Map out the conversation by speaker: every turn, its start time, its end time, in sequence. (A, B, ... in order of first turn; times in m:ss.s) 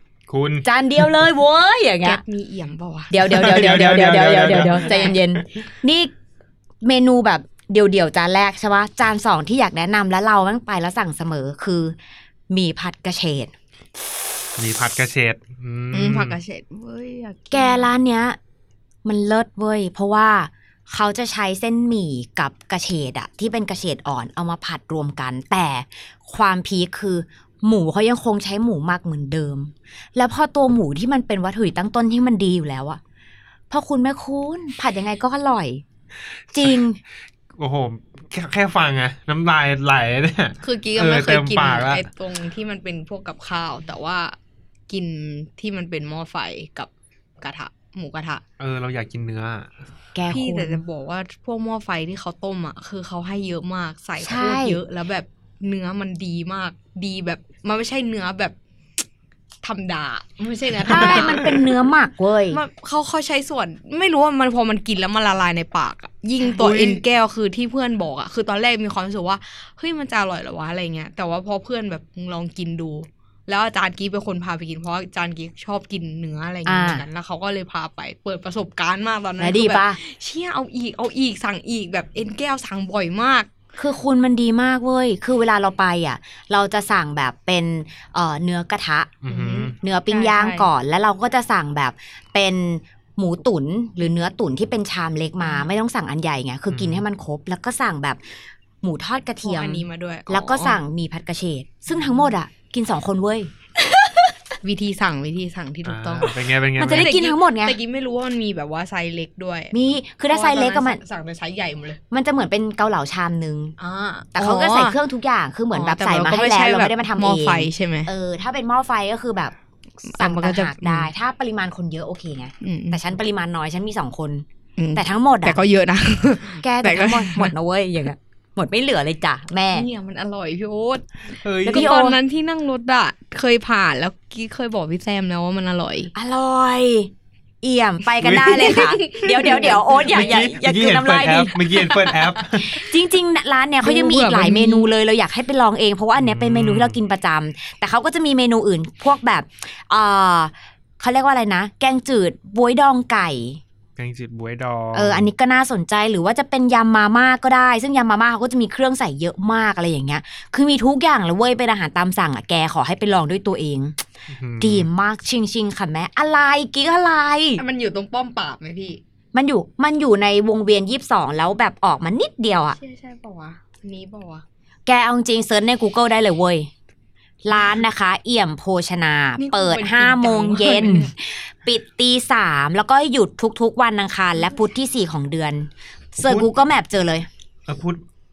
0:00.3-0:00.7 A
0:00.6-0:02.2 B
0:02.0-0:03.5 C
0:03.1-0:06.1 B
0:03.3-0:05.2 A
0:04.5-0:05.2 C
0:06.8-0:12.0 B
0:12.5-0:13.5 B
0:14.6-0:16.4 A
0:15.9-0:17.9 C
0:17.5-0:18.4 B
0:19.0-0:33.0 B
0:33.7-0:35.8 B
0:36.5-0:37.0 B
0:37.6-0:42.1 A
0:40.6-0:44.4 C
0:44.9-0:46.9 C
0:47.4-0:48.4 C
0:48.6-0:49.7 A
0:50.2-0:50.8 B
0:50.3-0:58.6 C
0:54.2-0:54.8 B
0:59.6-1:01.8 C
1:00.9-1:02.6 B
1:01.0-1:01.3 A
1:02.5-1:23.5 C
1:06.6-1:07.0 A
1:16.7-1:17.0 B
1:19.4-1:20.0 B
1:23.8-1:29.2 B
1:29.2-1:29.8 A
1:29.3-1:30.7 C
1:29.8-1:38.2 B
1:35.4-1:35.7 C
1:36.7-1:37.0 A
1:38.8-1:43.5 B
1:39.4-1:40.8 C
1:44.6-1:49.7 C
1:45.8-1:47.1 A
1:46.8-1:47.8 B
1:49.7-1:51.0 B
1:50.3-1:52.0 C
1:52.1-1:53.8 B
1:53.8-1:55.0 C
1:54.4-1:59.6 B
1:55.7-1:58.1 C
2:00.0-2:01.1 C
2:00.1-2:05.6 B
2:02.6-2:03.0 C
2:04.8-2:07.5 C
2:06.6-2:09.9 B
2:09.7-2:16.1 C
2:11.4-2:12.0 A
2:11.7-2:12.2 B
2:16.1-2:17.1 B
2:17.6-2:21.7 B
2:18.2-2:18.8 A
2:18.4-2:20.4 C
2:19.9-2:22.8 A
2:21.8-2:22.5 C
2:22.6-2:33.6 B
2:23.8-2:24.9 C
2:26.2-2:27.0 A
2:34.0-2:35.3 A
2:34.9-2:44.0 B
2:44.3-2:44.9 A
2:44.6-2:47.6 B
2:47.6-2:49.0 C
2:49.3-2:52.8 B
2:52.8-2:54.4 C
2:54.9-2:56.7 B
2:57.4-3:07.3 B
2:59.4-3:01.1 C
3:07.7-3:08.0 A